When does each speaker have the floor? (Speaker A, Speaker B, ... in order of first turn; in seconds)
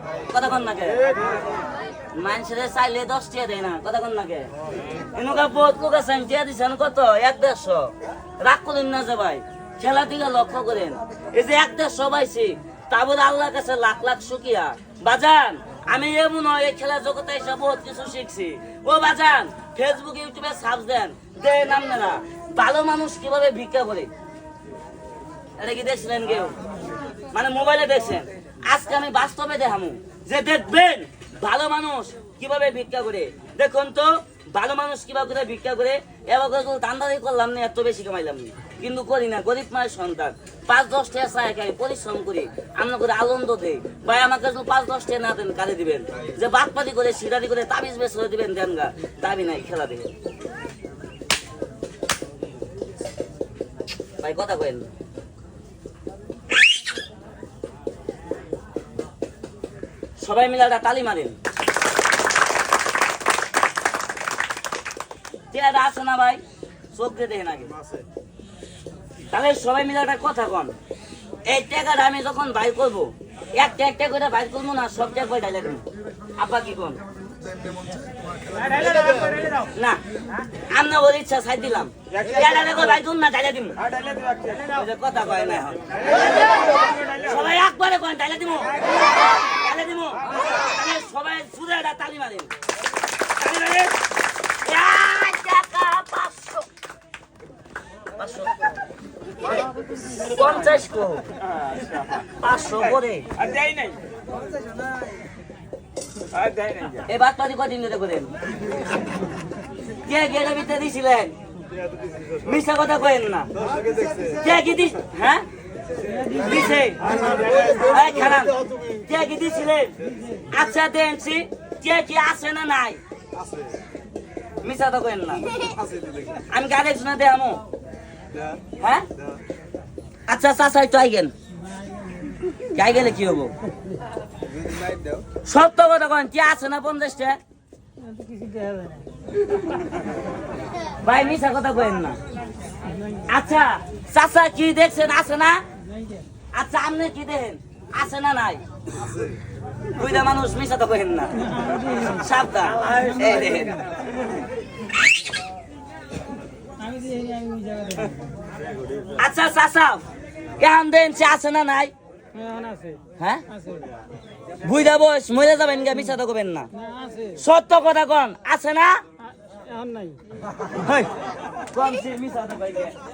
Speaker A: 0.3-1.1, 2.1-4.5, 5.0-24.1, 25.6-26.6, 27.3-50.1, 54.2-54.9, 60.2-61.4, 65.5-66.4, 66.9-67.8, 69.3-70.8, 71.5-75.9, 76.4-77.0, 79.7-80.0, 80.6-83.9, 84.4-92.5, 93.4-94.0, 94.6-96.7, 98.2-98.6, 100.1-101.3, 102.4-103.4, 107.0-108.3, 110.0-111.4, 112.4-113.5, 114.3-115.5, 116.2-123.0, 124.6-125.6, 126.4-127.6, 128.8-129.1, 130.3-131.3, 132.7-133.5, 135.4-137.4, 141.0-142.2, 143.3-145.7, 146.5-149.1, 149.9-153.8, 159.2-160.1, 160.6-161.9, 163.2-163.5, 164.6-166.7, 167.3-169.0, 170.8-173.0
Speaker B: 78.6-79.5, 103.5-104.0, 106.3-107.0, 138.1-139.0, 156.8-158.1, 162.4-163.0, 166.8-167.3, 169.5-170.2